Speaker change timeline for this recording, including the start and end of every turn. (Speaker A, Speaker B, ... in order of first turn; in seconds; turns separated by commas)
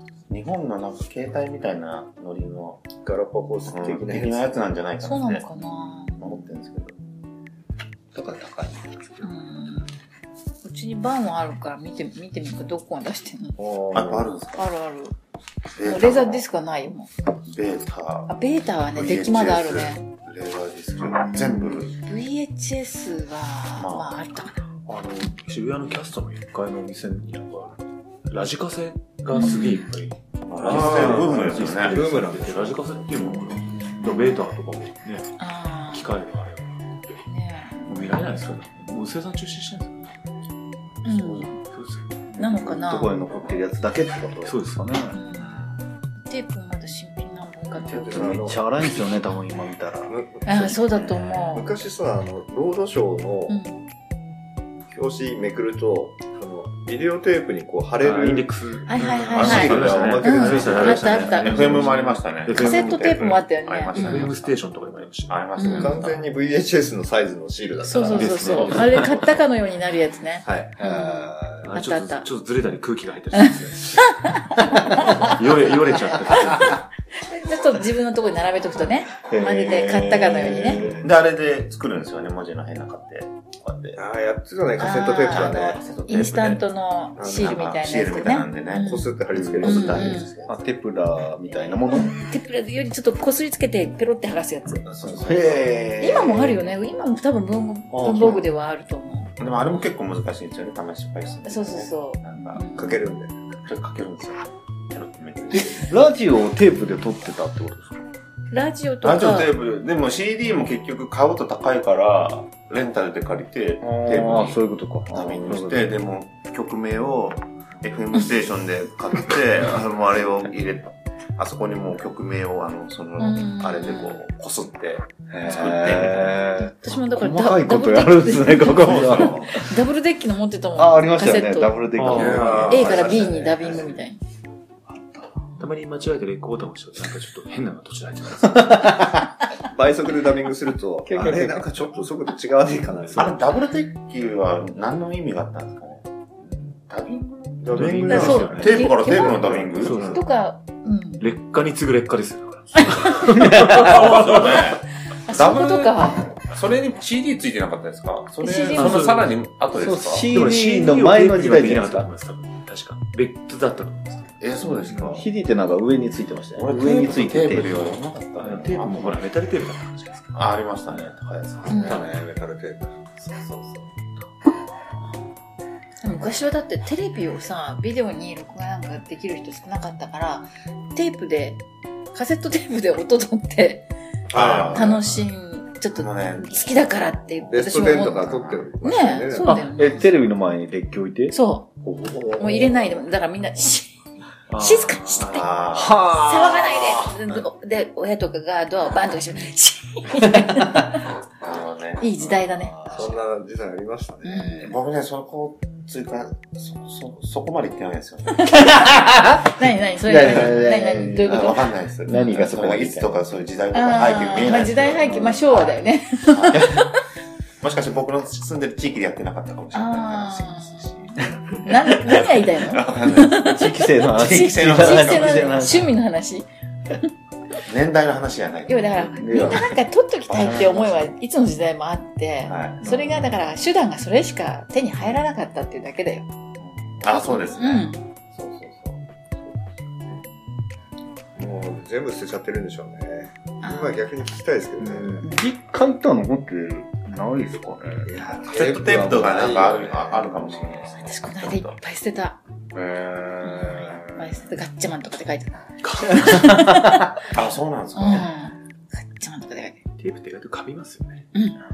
Speaker A: 0.3-2.9, Speaker B: 3.0-4.6, Speaker A: 3.7-5.5, Speaker C: 5.0-6.2, Speaker A: 6.2-7.0, Speaker D: 8.1-9.2, Speaker C: 9.2-9.9, Speaker C: 10.6-13.6, Speaker B: 13.6-14.3, Speaker A: 13.9-14.7, Speaker C: 14.6-15.1, Speaker A: 15.8-16.4, Speaker C: 15.8-17.1, Speaker A: 17.5-18.3, Speaker C: 18.3-20.0, Speaker A: 18.9-21.9, Speaker D: 21.0-21.8, Speaker C: 21.9-24.6, Speaker A: 23.8-24.2, Speaker E: 24.9-35.4, Speaker C: 29.3-29.9, Speaker A: 30.4-32.0, Speaker B: 30.6-32.8, Speaker D: 33.6-34.0, Speaker C: 35.4-36.1, Speaker E: 35.9-36.7, Speaker C: 37.3-37.8, Speaker E: 37.9-40.1, Speaker C: 41.0-41.6, Speaker E: 41.7-42.0, Speaker D: 42.3-45.2, Speaker C: 42.4-43.2, Speaker E: 44.5-44.8, Speaker C: 45.1-45.6, Speaker C: 46.3-48.3, Speaker B: 47.9-49.0, Speaker D: 47.9-50.1, Speaker B: 50.1-53.6, Speaker C: 50.5-51.7, Speaker C: 53.5-53.8, Speaker B: 54.9-58.5, Speaker E: 58.0-63.4, Speaker C: 58.9-61.8, Speaker B: 59.3-61.6, Speaker A: 59.4-66.1, Speaker C: 62.5-64.3, Speaker E: 63.9-66.2, Speaker C: 65.6-66.0, Speaker B: 65.7-68.8, Speaker C: 67.8-72.3, Speaker E: 68.1-69.3, Speaker D: 68.6-69.1, Speaker B: 70.5-70.8, Speaker D: 70.8-71.3, Speaker B: 71.4-71.7, Speaker E: 71.6-74.2, Speaker C: 73.3-75.3, Speaker D: 74.6-75.4, Speaker E: 74.9-76.8, Speaker C: 76.3-80.9, Speaker D: 76.3-76.8, Speaker D: 79.3-81.1, Speaker A: 79.3-80.0, Speaker A: 80.8-84.0, Speaker B: 84.0-85.8, Speaker C: 84.8-90.3, Speaker A: 85.3-86.6, Speaker B: 87.2-87.6, Speaker A: 87.2-90.6, Speaker B: 88.7-90.2, Speaker D: 89.3-92.1, Speaker C: 91.5-94.8, Speaker A: 91.5-92.1, Speaker A: 94.8-96.7, Speaker D: 95.0-95.8, Speaker C: 96.0-99.3, Speaker D: 97.9-98.5, Speaker A: 98.0-98.4, Speaker A: 99.4-102.8, Speaker C: 101.5-103.0, Speaker B: 102.6-103.3, Speaker A: 103.5-106.0, Speaker D: 105.5-108.0, Speaker C: 108.5-109.5, Speaker A: 109.0-114.6, Speaker D: 113.8-115.9, Speaker B: 114.1-114.5, Speaker A: 115.1-126.4, Speaker C: 123.2-124.2, Speaker D: 125.3-129.8, Speaker C: 125.5-125.8, Speaker C: 126.5-131.9, Speaker A: 128.6-129.6, Speaker D: 130.8-133.2, Speaker E: 131.9-132.8, Speaker B: 132.1-133.9, Speaker C: 132.6-134.2, Speaker D: 134.9-135.4, Speaker E: 135.6-139.1, Speaker D: 138.6-139.2, Speaker B: 139.7-143.5, Speaker D: 141.1-141.9, Speaker A: 143.1-150.2, Speaker B: 147.6-150.2, Speaker E: 147.7-148.9, Speaker C: 148.1-151.3, Speaker E: 149.8-150.2, Speaker E: 151.2-154.8, Speaker C: 152.8-153.2, Speaker D: 153.2-154.0, Speaker A: 153.8-160.3, Speaker C: 155.3-156.2, Speaker C: 158.4-159.1, Speaker E: 158.7-159.3, Speaker D: 159.8-162.1, Speaker E: 160.3-165.2, Speaker A: 164.4-165.3, Speaker D: 165.0-167.8, Speaker A: 166.6-169.2, Speaker E: 168.4-170.3, Speaker A: 170.3-172.1, Speaker C: 171.7-172.0, Speaker B: 171.7-173.0, Speaker D: 173.3-173.8, Speaker C: 176.0-181.6, Speaker C: 182.1-183.9, Speaker A: 184.3-185.2, Speaker B: 184.3-184.9, Speaker C: 184.6-190.1, Speaker A: 185.9-188.7, Speaker B: 187.5-189.6, Speaker D: 189.4-191.4, Speaker C: 191.3-191.7, Speaker A: 191.8-192.6, Speaker D: 192.3-192.7, Speaker C: 192.3-193.9, Speaker E: 194.5-195.5, Speaker C: 194.6-201.0, Speaker A: 195.2-196.2, Speaker D: 195.8-196.8, Speaker A: 201.4-202.1, Speaker C: 202.0-202.8, Speaker D: 202.2-203.1, Speaker B: 202.9-204.8, Speaker C: 204.2-204.7, Speaker A: 204.6-209.1, Speaker C: 208.4-212.3, Speaker D: 208.6-211.5, Speaker A: 211.1-216.8, Speaker D: 212.1-213.2, Speaker C: 213.7-217.0, Speaker A: 217.6-223.4, Speaker C: 219.7-227.0, Speaker D: 223.2-225.9, Speaker A: 224.1-225.6, Speaker A: 227.7-229.8, Speaker C: 228.7-236.3, Speaker D: 229.2-229.8, Speaker A: 230.3-231.1, Speaker A: 232.4-233.4, Speaker D: 232.8-233.2, Speaker A: 236.6-239.5, Speaker C: 237.1-238.0, Speaker B: 241.4-245.3, Speaker C: 243.6-244.1, Speaker C: 244.8-245.4, Speaker D: 245.0-248.2, Speaker B: 248.1-250.4, Speaker A: 248.5-251.8, Speaker C: 251.0-252.4, Speaker A: 252.7-254.3, Speaker C: 253.4-257.2, Speaker E: 255.8-256.4, Speaker D: 256.2-256.9, Speaker A: 257.3-258.3, Speaker C: 257.9-259.8, Speaker E: 260.0-261.2, Speaker C: 261.3-261.6